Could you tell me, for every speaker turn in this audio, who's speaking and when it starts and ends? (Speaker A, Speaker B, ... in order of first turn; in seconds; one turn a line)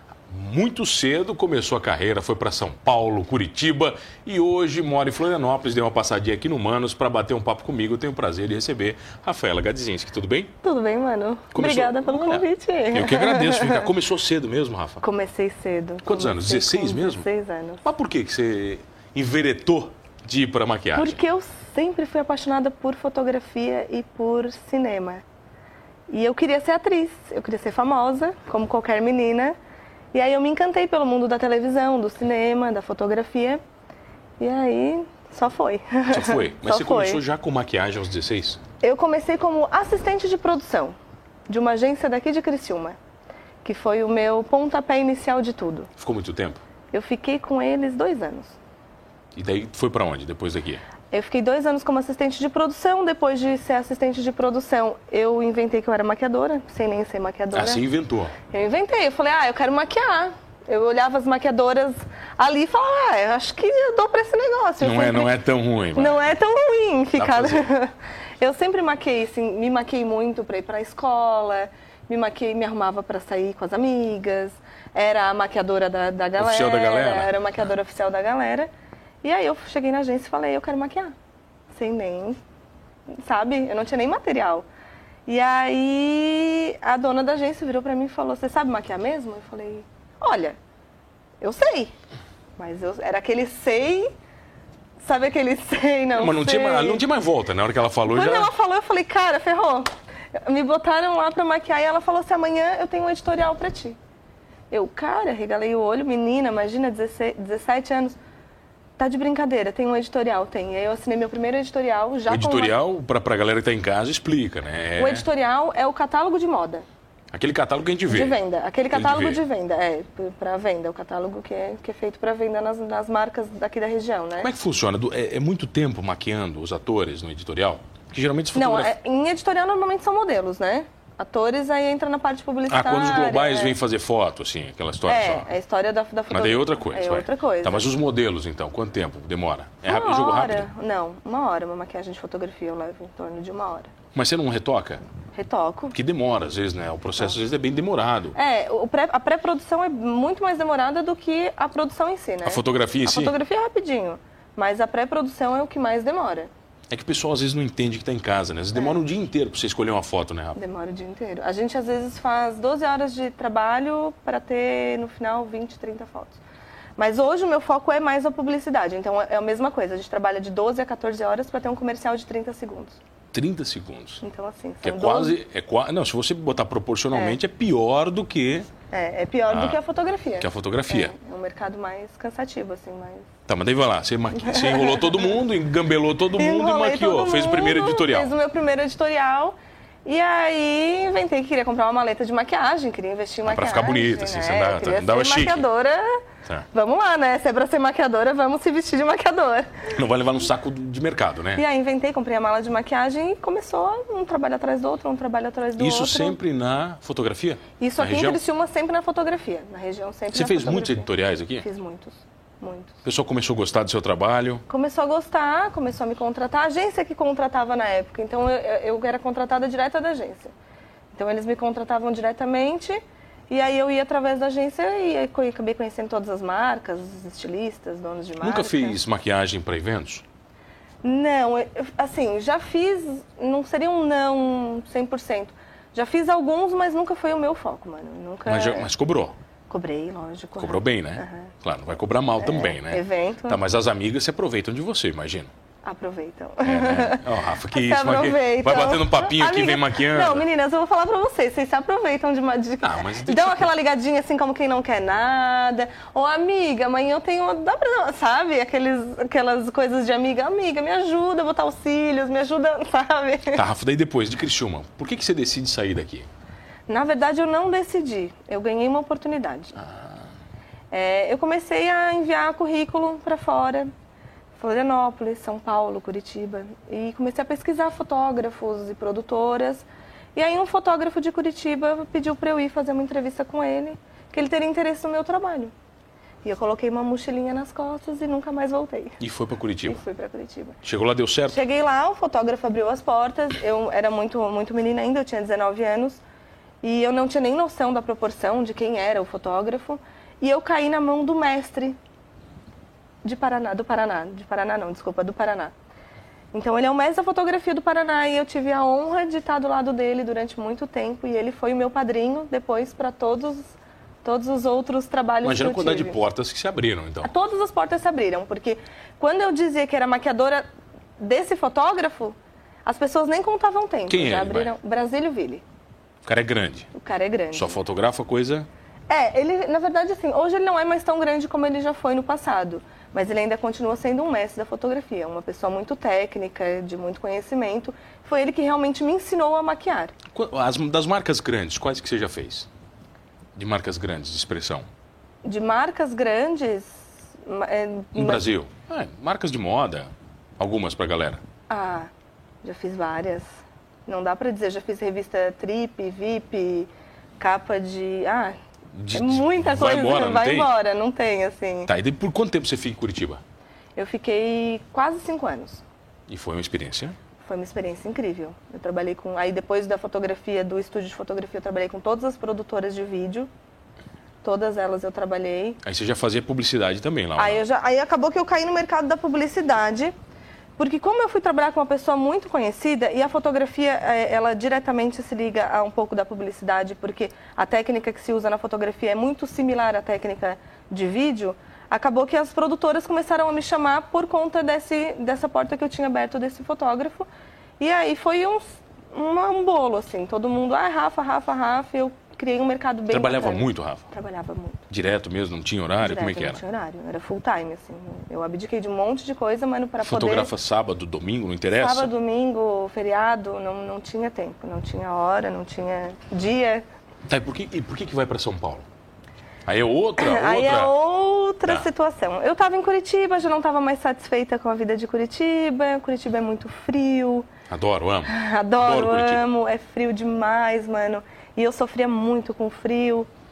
Speaker A: 0.3-10.5
Speaker B: 10.6-13.9
Speaker A: 11.5-15.0
Speaker B: 15.0-17.8
Speaker A: 16.0-17.3
Speaker A: 17.8-21.2
Speaker B: 20.9-25.2
Speaker B: 26.1-29.5
Speaker B: 30.1-33.6
Speaker B: 34.4-37.2
Speaker A: 36.1-38.6
Speaker B: 38.8-40.9
Speaker B: 41.5-43.0
Speaker B: 43.6-45.9
Speaker A: 46.0-46.6
Speaker B: 46.9-48.5
Speaker A: 49.3-50.8
Speaker B: 51.1-57.8
Speaker A: 57.5-58.3
Speaker B: 58.4-65.3
Speaker A: 64.8-66.3
Speaker B: 65.9-78.7
Speaker A: 67.1-67.7
Speaker A: 76.4-77.3
Speaker B: 79.2-81.1
Speaker B: 81.7-82.4
Speaker B: 83.2-84.6
Speaker B: 85.2-90.5
Speaker B: 91.4-91.9
Speaker B: 92.6-94.1
Speaker B: 95.0-97.0
Speaker A: 96.2-98.5
Speaker B: 98.0-104.0
Speaker B: 104.7-108.2
Speaker B: 109.0-112.8
Speaker A: 112.3-115.2
Speaker B: 115.0-116.8
Speaker A: 117.3-119.4
Speaker B: 118.1-124.5
Speaker A: 124.4-128.9
Speaker B: 128.5-133.8
Speaker A: 132.7-135.5
Speaker B: 135.1-137.9
Speaker A: 136.3-140.7
Speaker B: 139.8-143.9
Speaker A: 144.1-145.0
Speaker B: 145.3-145.9
Speaker A: 145.9-148.3
Speaker B: 148.3-156.5
Speaker A: 152.4-153.3
Speaker A: 156.9-160.6
Speaker B: 160.5-166.4
Speaker B: 167.0-173.0
Speaker A: 173.3-174.2
Speaker B: 174.2-175.3
Speaker A: 174.8-178.7
Speaker B: 177.1-177.4
Speaker B: 178.9-183.3
Speaker A: 179.5-179.8
Speaker A: 180.4-181.1
Speaker A: 183.5-188.3
Speaker B: 184.3-185.3
Speaker B: 186.3-196.2
Speaker A: 193.4-195.7
Speaker B: 196.7-199.9
Speaker A: 199.9-201.6
Speaker B: 201.6-206.4
Speaker A: 205.8-208.4
Speaker B: 207.8-211.1
Speaker A: 210.3-211.7
Speaker B: 211.6-212.9
Speaker A: 213.0-214.6
Speaker B: 214.7-220.5
Speaker B: 221.1-229.0
Speaker A: 228.4-230.2
Speaker B: 231.0-238.9
Speaker A: 238.4-239.3
Speaker B: 239.7-241.5
Speaker A: 240.6-245.5
Speaker B: 242.4-243.6
Speaker B: 245.8-263.6
Speaker A: 246.6-250.4
Speaker A: 252.8-253.7
Speaker A: 263.5-266.3
Speaker B: 266.9-269.8
Speaker A: 269.8-270.1
Speaker B: 270.9-273.9
Speaker B: 274.6-285.7
Speaker B: 286.4-289.2
Speaker A: 289.2-290.0
Speaker B: 289.9-290.8
Speaker A: 290.8-291.6
Speaker B: 291.5-296.2
Speaker B: 296.8-302.0
Speaker B: 303.2-305.7
Speaker B: 306.5-316.2
Speaker A: 315.4-317.3
Speaker B: 317.2-320.6
Speaker B: 321.2-325.6
Speaker A: 324.1-324.7
Speaker A: 326.2-326.9
Speaker B: 326.9-327.8
Speaker A: 327.5-328.7
Speaker B: 329.1-340.1
Speaker A: 340.3-342.7
Speaker A: 343.6-344.9
Speaker B: 345.4-348.4
Speaker A: 348.1-351.4
Speaker B: 351.7-352.1
Speaker B: 352.6-358.5
Speaker A: 358.9-360.7
Speaker B: 359.1-361.9
Speaker A: 361.9-363.4
Speaker B: 363.9-365.8
Speaker A: 366.3-367.1
Speaker B: 367.4-373.5
Speaker B: 374.4-375.8
Speaker A: 375.8-377.6
Speaker B: 377.4-380.1
Speaker B: 380.8-397.3
Speaker B: 397.8-404.8
Speaker A: 403.1-404.0
Speaker A: 404.9-406.6
Speaker B: 406.0-410.5
Speaker A: 410.0-412.1
Speaker B: 411.7-416.8
Speaker A: 417.3-418.9
Speaker A: 419.6-420.9
Speaker B: 420.2-427.5
Speaker A: 427.7-429.4
Speaker B: 428.3-433.3